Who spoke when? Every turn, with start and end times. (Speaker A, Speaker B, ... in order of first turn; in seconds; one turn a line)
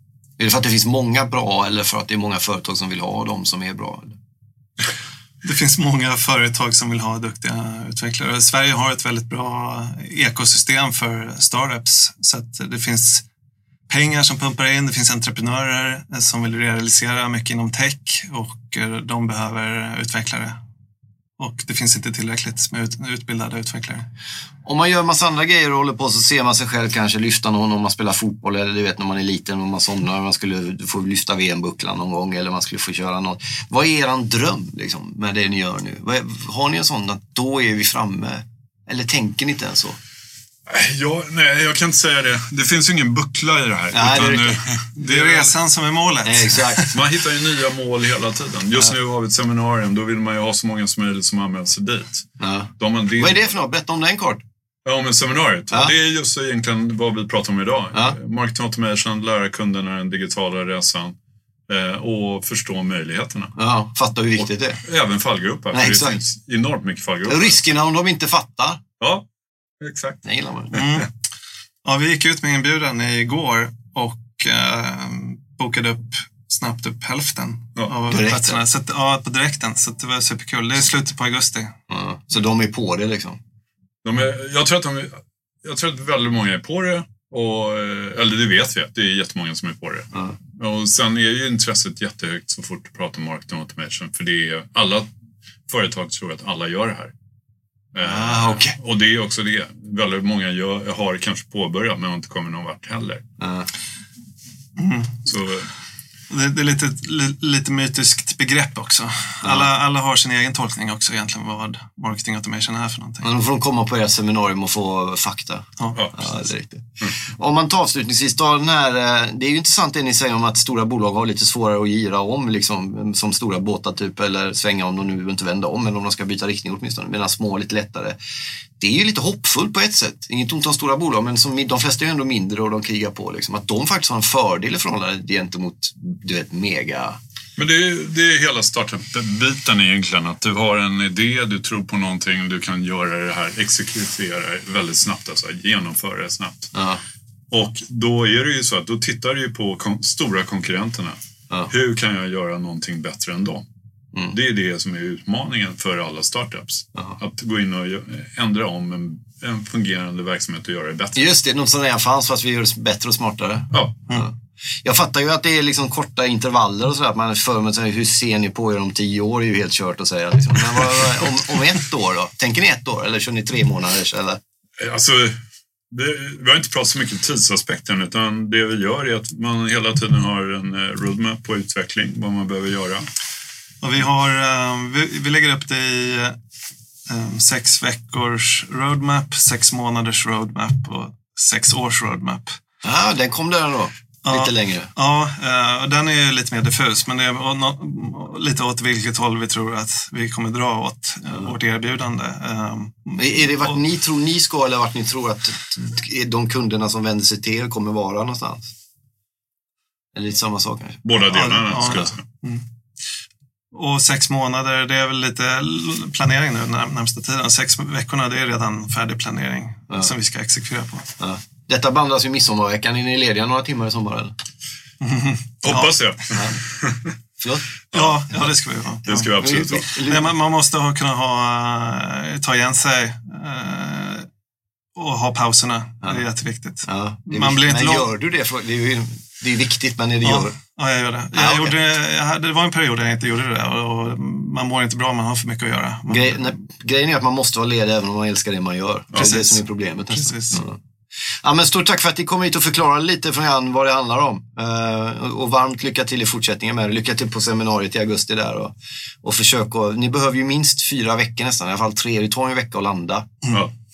Speaker A: 0.4-4.2
Speaker B: 5.4-13.2
Speaker B: 13.9-20.6
Speaker B: 21.4-24.1
Speaker A: 24.6-40.0
Speaker C: 40.7-45.5
Speaker A: 43.9-44.6
Speaker B: 45.0-47.0
Speaker A: 46.2-46.9
Speaker C: 46.9-53.5
Speaker A: 52.4-54.4
Speaker C: 54.8-61.1
Speaker C: 61.7-63.5
Speaker A: 63.5-64.8
Speaker C: 64.3-67.7
Speaker A: 65.7-66.2
Speaker A: 67.3-68.8
Speaker C: 69.0-69.2
Speaker C: 69.8-71.0
Speaker A: 70.2-70.8
Speaker B: 70.7-71.1
Speaker B: 71.8-81.7
Speaker A: 78.1-78.6
Speaker A: 81.9-83.4
Speaker C: 84.0-95.1
Speaker C: 95.7-97.1
Speaker C: 97.9-103.2
Speaker A: 98.0-98.8
Speaker A: 103.4-103.7
Speaker B: 104.8-105.2
Speaker C: 105.2-105.7
Speaker B: 106.3-113.3
Speaker A: 109.4-109.7
Speaker A: 113.2-128.2
Speaker C: 115.9-116.3
Speaker A: 128.8-137.2
Speaker C: 137.6-146.7
Speaker A: 146.7-147.0
Speaker C: 147.5-153.7
Speaker C: 154.3-161.3
Speaker A: 161.1-174.4
Speaker C: 163.7-164.0
Speaker C: 170.7-171.2
Speaker C: 174.8-175.4
Speaker C: 175.9-183.1
Speaker B: 183.8-186.4
Speaker B: 187.1-192.6
Speaker A: 192.8-194.9
Speaker B: 194.2-203.8
Speaker A: 203.2-208.7
Speaker A: 210.1-211.0
Speaker C: 211.0-212.2
Speaker B: 211.3-212.6
Speaker B: 213.7-221.2
Speaker A: 221.2-224.3
Speaker B: 225.0-225.9
Speaker C: 225.6-227.1
Speaker A: 226.3-226.6
Speaker A: 227.4-227.7
Speaker B: 227.9-229.3
Speaker C: 229.0-229.9
Speaker A: 229.4-230.3
Speaker B: 230.0-234.3
Speaker B: 234.9-238.1
Speaker A: 236.8-240.5
Speaker B: 240.2-246.5
Speaker A: 241.3-241.8
Speaker A: 246.1-250.8
Speaker B: 249.1-250.6
Speaker A: 251.3-263.5